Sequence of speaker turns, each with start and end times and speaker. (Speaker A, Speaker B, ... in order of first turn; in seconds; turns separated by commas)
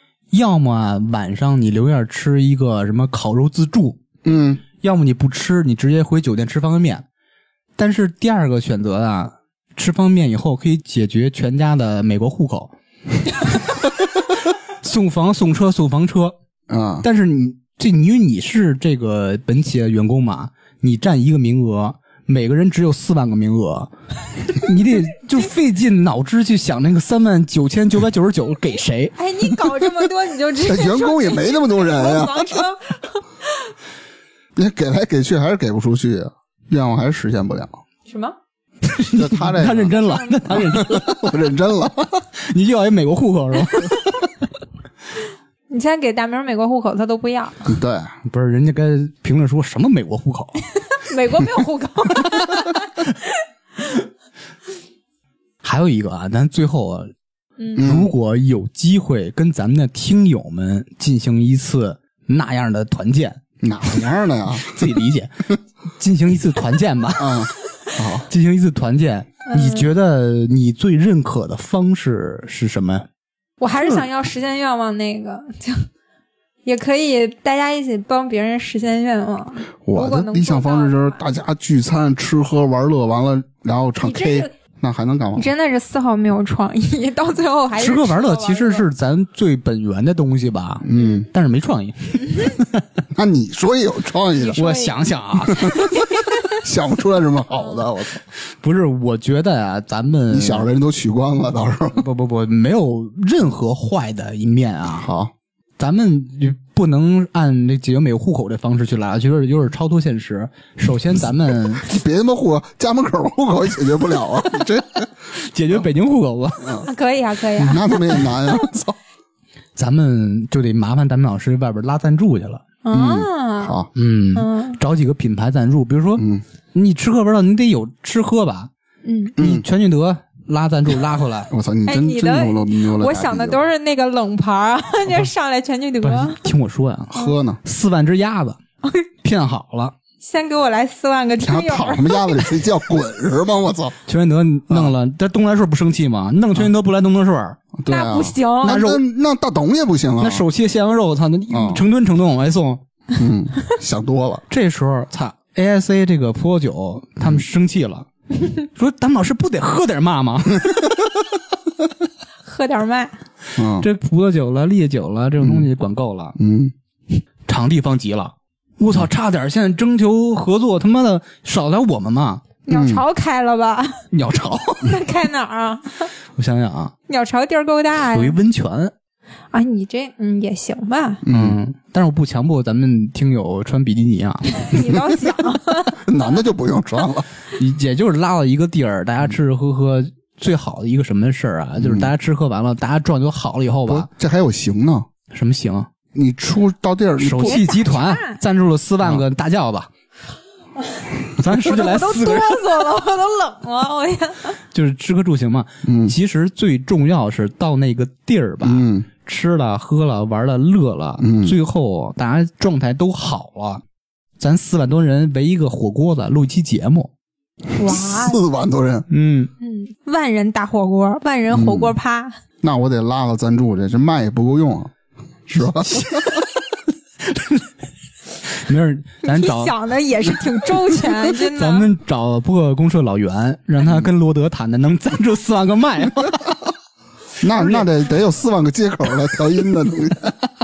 Speaker A: 0.3-4.0, Speaker B: 4.2-4.6, Speaker A: 4.8-7.0, Speaker A: 7.8-12.7, Speaker A: 13.4-16.3, Speaker B: 16.7-17.1, Speaker A: 17.0-29.5, Speaker C: 29.1-33.2, Speaker B: 30.6-32.6, Speaker B: 34.5-37.8, Speaker C: 38.1-38.4, Speaker A: 38.8-41.4, Speaker B: 39.1-40.0, Speaker C: 40.0-40.4, Speaker B: 40.5-42.2, Speaker A: 42.5-44.4, Speaker C: 45.7-47.7, Speaker B: 47.6-48.1, Speaker A: 48.2-50.6, Speaker C: 51.0-52.8, Speaker A: 55.6-57.1, Speaker A: 57.8-65.5, Speaker B: 57.8-58.1, Speaker B: 63.6-65.0, Speaker A: 66.0-67.5, Speaker B: 67.2-68.3, Speaker A: 68.3-73.1, Speaker C: 69.5-69.9, Speaker C: 73.6-75.9, Speaker C: 76.6-81.2, Speaker B: 79.8-85.5, Speaker C: 84.0-84.5, Speaker C: 85.3-88.8, Speaker A: 87.8-92.8, Speaker B: 90.8-91.3, Speaker C: 91.0-91.2, Speaker B: 93.1-94.7, Speaker C: 94.4-94.9, Speaker A: 94.6-95.9, Speaker B: 95.4-96.0, Speaker B: 96.5-98.2, Speaker A: 98.6-100.7, Speaker B: 100.3-102.0, Speaker A: 102.0-105.1, Speaker B: 105.0-105.3, Speaker A: 105.8-111.8, Speaker B: 111.8-115.1, Speaker A: 115.3-116.8, Speaker C: 116.8-118.3, Speaker B: 117.6-119.0, Speaker A: 119.8-122.6, Speaker C: 122.8-123.8, Speaker B: 122.9-123.9, Speaker A: 123.9-128.7, Speaker C: 124.3-124.8, Speaker B: 126.2-126.4, Speaker C: 129.0-129.3, Speaker B: 129.4-129.6, Speaker A: 129.4-131.5, Speaker B: 131.5-133.6, Speaker C: 131.9-136.5, Speaker A: 136.0-137.1, Speaker B: 137.1-137.6, Speaker A: 137.6-138.6, Speaker A: 139.2-139.9, Speaker C: 140.2-142.6, Speaker B: 141.4-144.0, Speaker A: 144.1-147.6, Speaker B: 147.8-150.4, Speaker C: 147.9-148.7, Speaker A: 148.6-149.0, Speaker A: 150.2-152.8, Speaker B: 151.5-151.8, Speaker B: 153.2-154.4, Speaker A: 154.5-158.1, Speaker A: 158.6-160.9, Speaker C: 162.4-163.2, Speaker B: 163.6-163.8, Speaker A: 163.8-166.3, Speaker B: 165.4-165.7, Speaker B: 166.4-166.7, Speaker A: 167.5-172.5, Speaker C: 172.7-174.1, Speaker B: 172.7-173.0, Speaker A: 174.1-175.0, Speaker C: 174.8-176.1, Speaker A: 176.3-176.9, Speaker C: 177.1-178.3, Speaker A: 178.0-178.9, Speaker C: 179.5-181.2, Speaker B: 181.2-181.6, Speaker A: 181.3-184.9, Speaker C: 184.5-186.0, Speaker B: 186.0-187.3, Speaker A: 187.6-194.1, Speaker B: 191.8-192.1, Speaker B: 193.8-195.1, Speaker A: 195.3-195.9, Speaker B: 196.1-197.6, Speaker A: 197.2-199.9, Speaker C: 197.4-198.4, Speaker A: 201.4-202.7, Speaker C: 201.5-204.6, Speaker A: 204.7-213.8, Speaker B: 205.8-206.1, Speaker B: 208.6-209.1, Speaker B: 211.2-211.6, Speaker A: 214.4-217.1, Speaker C: 217.8-218.4, Speaker B: 217.8-219.1, Speaker A: 219.1-219.5, Speaker C: 219.6-222.3, Speaker B: 221.5-221.9, Speaker B: 222.6-224.9, Speaker B: 225.5-226.2, Speaker A: 225.6-226.4, Speaker A: 227.2-227.7, Speaker A: 228.5-229.7, Speaker C: 229.2-231.9, Speaker A: 231.0-236.5, Speaker B: 233.8-234.1, Speaker B: 237.4-240.3